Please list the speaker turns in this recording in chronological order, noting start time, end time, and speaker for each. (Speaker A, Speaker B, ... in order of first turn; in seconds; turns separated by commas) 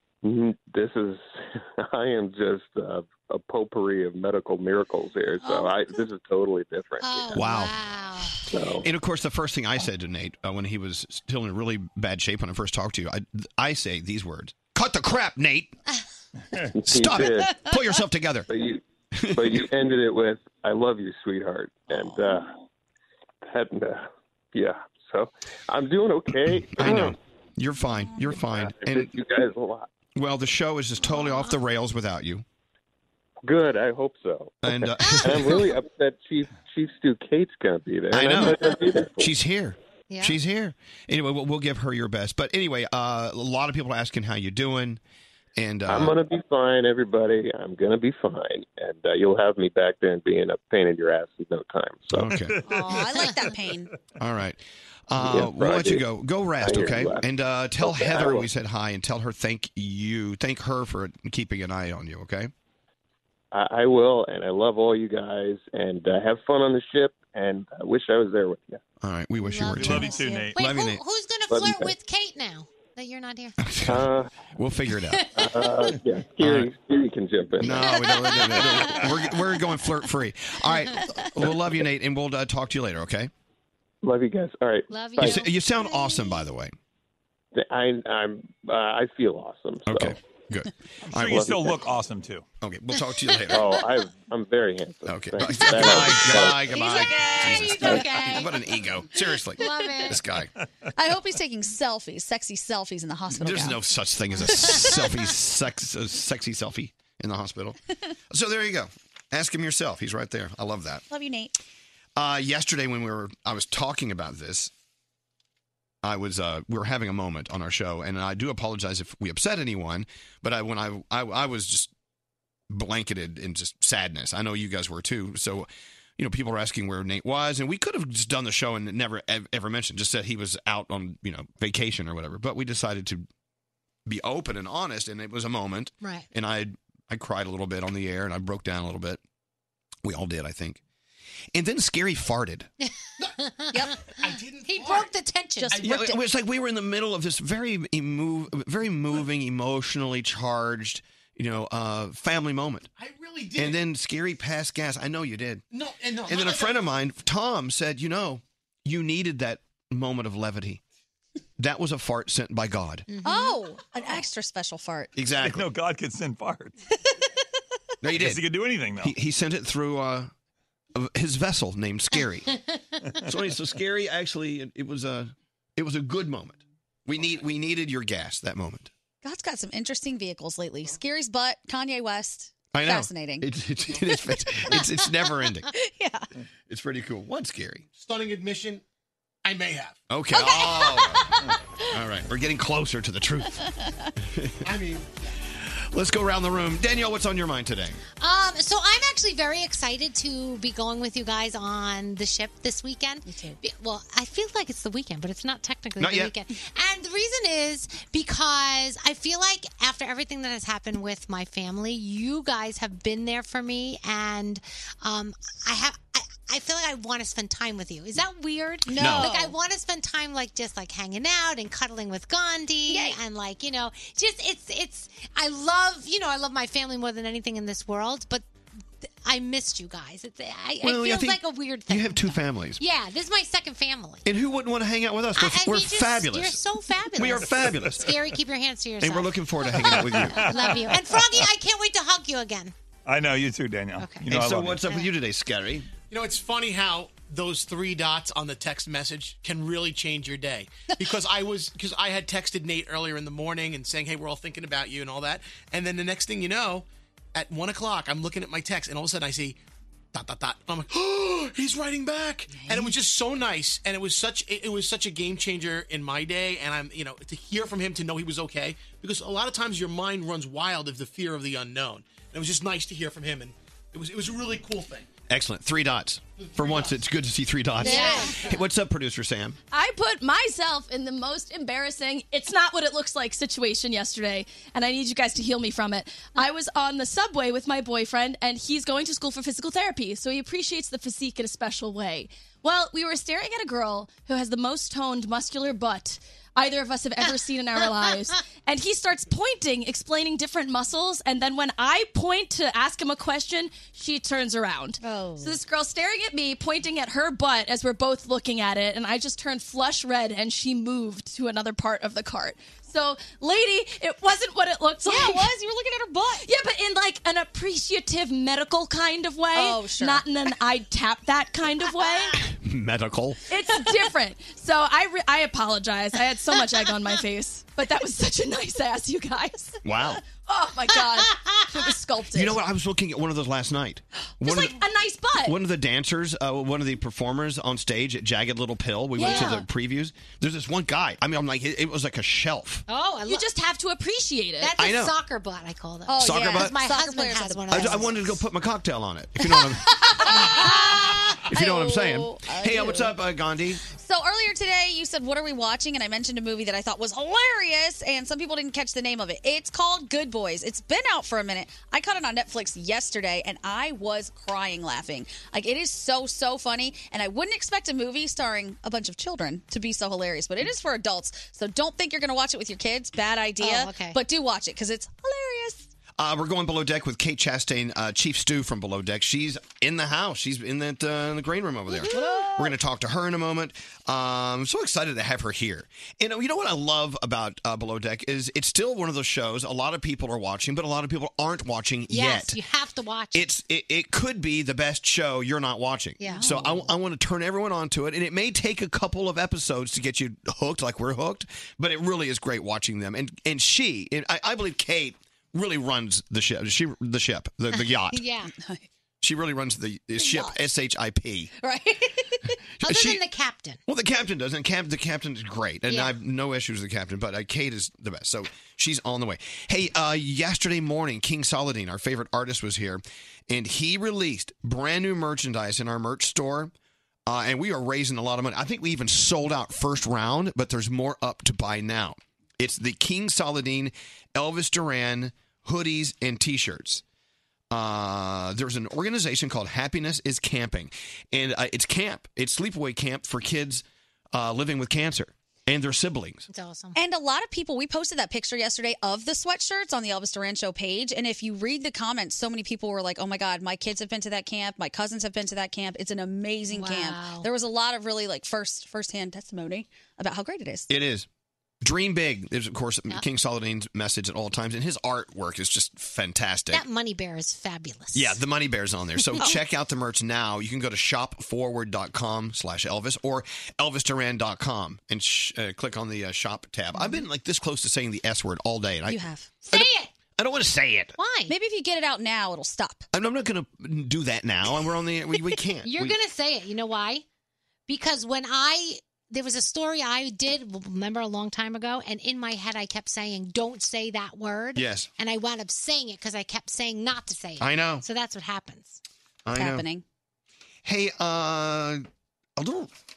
Speaker A: 0.2-7.5, Speaker B: 5.4-5.8, Speaker B: 7.0-8.5, Speaker C: 7.3-7.7, Speaker A: 8.4-8.8, Speaker C: 8.8-15.7, Speaker A: 16.8-17.6, Speaker C: 16.8-18.5, Speaker A: 18.5-18.8, Speaker C: 19.1-19.7, Speaker A: 19.3-22.5, Speaker A: 23.4-27.2, Speaker C: 26.4-29.1, Speaker A: 28.2-29.9, Speaker C: 30.1-32.4, Speaker B: 31.2-31.5, Speaker A: 33.4-39.3, Speaker C: 34.6-35.7, Speaker C: 38.1-45.0, Speaker B: 40.1-40.4, Speaker C: 45.5-46.2, Speaker A: 45.9-52.3, Speaker C: 52.1-52.6, Speaker D: 52.3-52.6, Speaker E: 52.7-53.9, Speaker B: 52.9-53.3, Speaker C: 54.2-62.5, Speaker A: 55.1-56.0, Speaker A: 56.6-57.2, Speaker A: 57.8-58.5, Speaker A: 63.5-68.8, Speaker C: 69.0-71.0, Speaker B: 69.4-73.5, Speaker D: 69.7-70.6, Speaker A: 71.5-71.9, Speaker C: 73.6-75.5, Speaker A: 73.8-74.3, Speaker B: 75.1-75.5, Speaker A: 75.3-78.0, Speaker C: 76.4-76.7, Speaker C: 77.6-83.3, Speaker A: 84.0-85.4, Speaker B: 84.9-85.5, Speaker C: 85.2-86.7, Speaker A: 87.5-90.2, Speaker C: 89.8-91.5, Speaker D: 91.1-92.4, Speaker A: 91.2-91.8, Speaker C: 92.6-93.7, Speaker A: 93.5-96.7, Speaker C: 95.0-100.5, Speaker E: 96.7-98.2, Speaker B: 96.8-98.5, Speaker B: 99.6-100.2, Speaker E: 100.9-103.8, Speaker C: 103.3-107.8, Speaker C: 108.3-111.0, Speaker E: 111.1-111.5, Speaker C: 112.2-114.7, Speaker C: 116.0-121.9, Speaker C: 122.7-133.3, Speaker C: 134.1-139.2, Speaker C: 140.0-140.8, Speaker C: 141.5-142.7, Speaker B: 142.8-145.8, Speaker E: 143.7-144.0, Speaker F: 144.1-145.1, Speaker F: 145.7-146.1, Speaker C: 145.8-152.9, Speaker E: 145.8-146.2, Speaker F: 153.0-153.8, Speaker C: 153.6-155.6, Speaker F: 155.7-156.8, Speaker C: 156.3-160.8, Speaker C: 161.6-163.1, Speaker B: 163.1-163.6, Speaker E: 163.2-165.1, Speaker C: 165.2-165.7, Speaker D: 165.4-166.7, Speaker C: 168.0-168.4, Speaker D: 168.1-169.1, Speaker C: 169.0-170.3, Speaker C: 170.9-172.5, Speaker C: 173.2-178.9, Speaker E: 179.2-183.5, Speaker C: 182.7-185.7, Speaker E: 185.7-186.2, Speaker C: 186.7-187.8, Speaker F: 187.9-188.8, Speaker F: 189.4-190.0, Speaker C: 190.1-193.7, Speaker E: 190.3-191.2, Speaker C: 194.3-194.6, Speaker F: 194.6-195.2, Speaker C: 195.7-198.0, Speaker B: 198.2-228.4, Speaker C: 206.0-206.3, Speaker E: 218.9-219.5, Speaker C: 218.9-219.3, Speaker E: 222.9-223.2, Speaker B: 229.2-234.2, Speaker C: 230.8-232.8, Speaker C: 234.2-236.6, Speaker B: 235.3-242.7, Speaker C: 237.2-238.1, Speaker C: 239.0-240.5, Speaker D: 239.8-241.0, Speaker D: 243.1-244.9, Speaker B: 244.0-244.2, Speaker C: 244.2-245.9, Speaker F: 246.1-259.6, Speaker F: 260.1-275.1, Speaker C: 275.3-279.6, Speaker F: 276.4-277.0, Speaker B: 277.8-278.5, Speaker F: 278.2-278.5, Speaker G: 279.7-315.5, Speaker E: 315.1-316.4, Speaker G: 316.4-322.4, Speaker E: 319.5-320.2, Speaker C: 322.3-323.4, Speaker G: 323.5-329.8, Speaker C: 329.8-330.2, Speaker G: 330.4-332.6, Speaker C: 332.3-334.8, Speaker G: 334.4-335.6, Speaker C: 335.4-342.8, Speaker G: 339.2-339.6, Speaker E: 339.2-339.6, Speaker B: 339.2-339.5, Speaker B: 342.9-343.4, Speaker G: 343.3-344.7, Speaker B: 344.6-348.4, Speaker C: 344.8-345.1, Speaker E: 346.1-348.1, Speaker C: 346.2-346.8, Speaker C: 347.7-353.8, Speaker E: 350.1-353.1, Speaker B: 350.3-351.4, Speaker E: 353.9-375.9, Speaker B: 373.6-374.2, Speaker C: 376.2-392.6, Speaker B: 382.1-382.5, Speaker E: 382.1-382.5, Speaker B: 392.1-393.5, Speaker C: 393.3-408.2, Speaker B: 396.2-396.9, Speaker B: 407.7-408.5, Speaker C: 409.2-411.5, Speaker E: 411.6-412.5, Speaker B: 412.8-413.8, Speaker C: 412.8-413.2, Speaker C: 413.9-426.7, Speaker B: 415.9-416.1, Speaker C: 427.2-437.0, Speaker C: 437.7-446.4, Speaker B: 446.5-447.0, Speaker E: 446.9-460.9, Speaker B: 456.7-457.5, Speaker C: 460.9-461.3, Speaker C: 461.8-466.9, Speaker B: 466.7-468.4, Speaker C: 468.1-481.1, Speaker B: 469.2-469.5, Speaker E: 479.1-479.6, Speaker B: 479.6-480.1, Speaker B: 481.2-481.5, Speaker E: 481.5-483.1, Speaker C: 483.1-486.2, Speaker B: 485.8-487.2, Speaker B: 487.9-499.0, Speaker C: 494.8-495.1, Speaker C: 497.6-498.0, Speaker C: 499.4-499.9, Speaker E: 499.5-500.0, Speaker C: 500.8-502.0, Speaker C: 502.6-502.9